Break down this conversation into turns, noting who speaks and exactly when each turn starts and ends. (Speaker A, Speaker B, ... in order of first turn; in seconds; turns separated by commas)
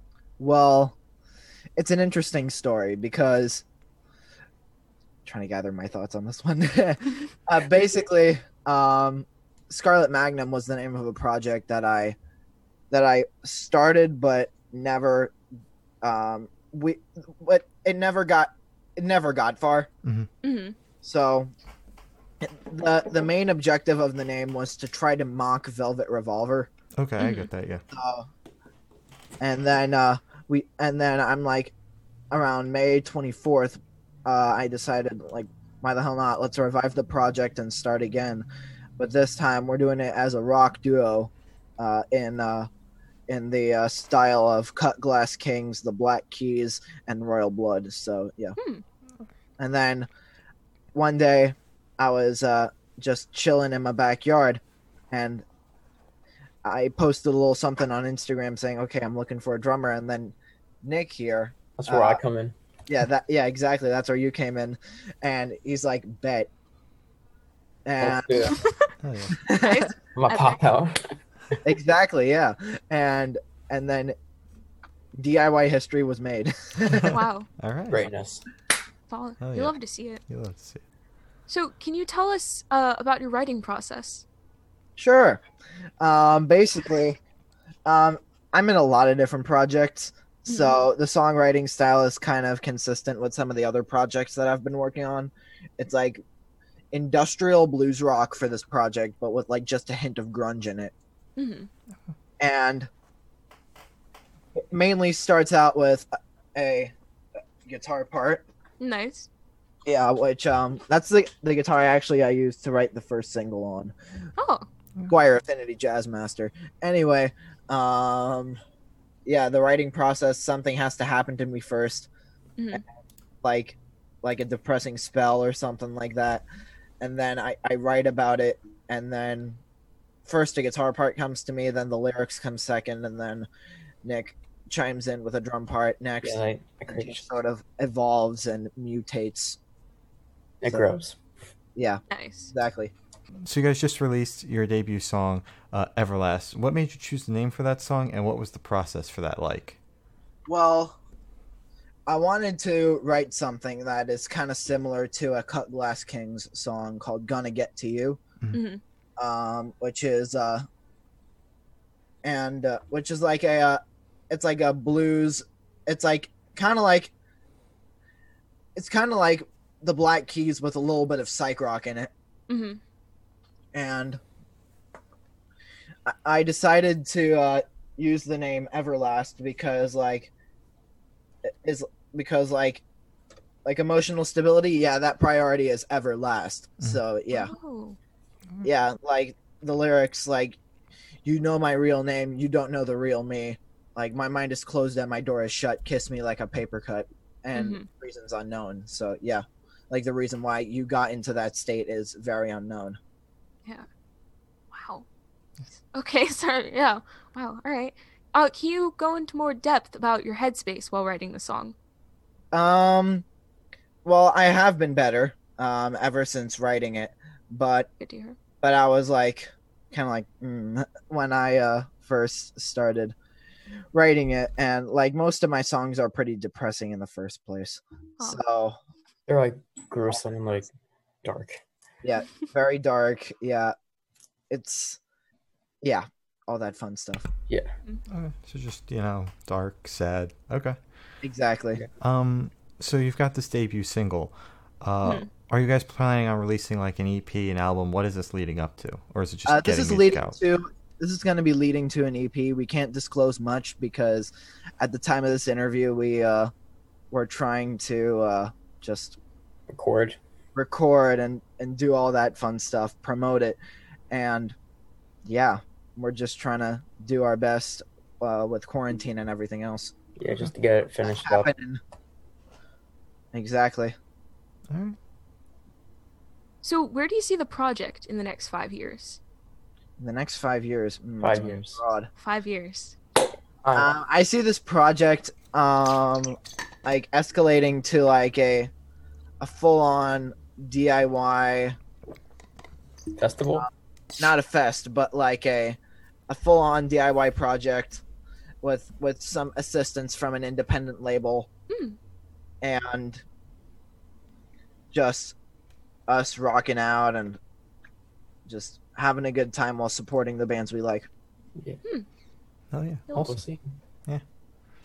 Speaker A: 0.4-1.0, Speaker A: 1.8-3.6, Speaker A: 5.2-12.2, Speaker A: 12.9-15.3, Speaker A: 16.0-19.9, Speaker B: 20.0-20.3, Speaker C: 20.4-20.8, Speaker A: 21.0-21.5, Speaker A: 22.4-26.7, Speaker B: 27.0-27.8, Speaker C: 27.2-27.5, Speaker A: 27.9-28.3, Speaker A: 29.4-31.7, Speaker A: 32.3-38.5, Speaker A: 39.0-42.7, Speaker A: 43.3-48.6, Speaker C: 48.6-48.8, Speaker A: 49.6-50.1, Speaker A: 50.9-55.4, Speaker A: 56.6-62.2, Speaker D: 61.8-62.5, Speaker A: 62.9-66.5, Speaker A: 67.8-68.6, Speaker D: 68.0-68.5, Speaker C: 68.4-68.8, Speaker B: 69.0-69.4, Speaker A: 69.4-69.9, Speaker C: 69.6-70.6, Speaker D: 70.1-71.0, Speaker A: 71.6-74.1, Speaker A: 75.2-77.2, Speaker B: 76.9-78.0, Speaker C: 77.1-77.5, Speaker D: 77.9-78.4, Speaker C: 79.1-80.2, Speaker B: 79.4-80.8, Speaker C: 81.5-84.2, Speaker A: 85.0-85.4, Speaker A: 86.0-87.2, Speaker A: 87.8-96.2, Speaker C: 90.5-90.8, Speaker A: 96.9-100.9, Speaker C: 101.4-101.7, Speaker A: 102.4-102.9, Speaker A: 104.7-106.9, Speaker A: 107.7-108.4, Speaker C: 108.8-109.3, Speaker A: 109.8-113.9, Speaker C: 114.4-114.7, Speaker A: 115.1-118.6, Speaker A: 119.2-122.1, Speaker C: 122.6-122.8, Speaker A: 123.4-126.4, Speaker A: 127.0-129.6, Speaker A: 130.2-133.5, Speaker A: 134.0-139.6, Speaker D: 136.2-137.1, Speaker D: 140.6-141.2, Speaker A: 140.7-140.9, Speaker A: 141.7-142.9, Speaker C: 142.1-142.5, Speaker B: 143.4-149.8, Speaker A: 150.4-151.0, Speaker A: 152.1-158.2, Speaker C: 158.5-158.8, Speaker A: 159.2-160.7, Speaker A: 162.2-167.1, Speaker A: 168.7-172.1, Speaker C: 172.5-172.8, Speaker A: 173.7-174.2, Speaker A: 176.1-180.3, Speaker A: 181.4-182.8, Speaker A: 183.6-187.5, Speaker C: 187.3-188.0, Speaker A: 188.6-190.6, Speaker A: 191.2-203.0, Speaker C: 197.5-197.9, Speaker C: 204.7-205.0, Speaker C: 205.9-211.7, Speaker A: 212.5-213.2, Speaker A: 214.0-217.9, Speaker C: 218.0-218.4, Speaker A: 218.6-223.1, Speaker A: 223.9-228.8, Speaker D: 229.3-230.7, Speaker D: 231.2-231.6, Speaker A: 232.0-233.7, Speaker A: 234.5-235.0, Speaker A: 235.8-237.2, Speaker B: 238.1-240.8, Speaker A: 241.2-241.8, Speaker B: 242.0-250.4, Speaker A: 249.4-256.5, Speaker A: 257.1-259.2, Speaker D: 259.7-260.2, Speaker A: 260.5-263.6, Speaker A: 264.1-264.5, Speaker A: 265.2-269.9, Speaker D: 270.2-271.5, Speaker A: 271.0-271.8, Speaker A: 273.3-273.9, Speaker B: 274.7-275.0, Speaker C: 276.6-279.2, Speaker A: 280.0-282.1, Speaker D: 281.2-281.8, Speaker C: 282.2-282.9, Speaker A: 283.7-288.7, Speaker A: 289.4-291.7, Speaker D: 293.2-293.6, Speaker A: 293.6-295.8, Speaker A: 296.3-298.0, Speaker A: 298.6-301.5, Speaker C: 301.7-302.0, Speaker A: 302.6-303.2, Speaker A: 304.9-305.3, Speaker A: 306.1-307.4, Speaker A: 308.5-311.1, Speaker B: 312.7-313.4, Speaker C: 313.1-313.3, Speaker D: 313.1-313.7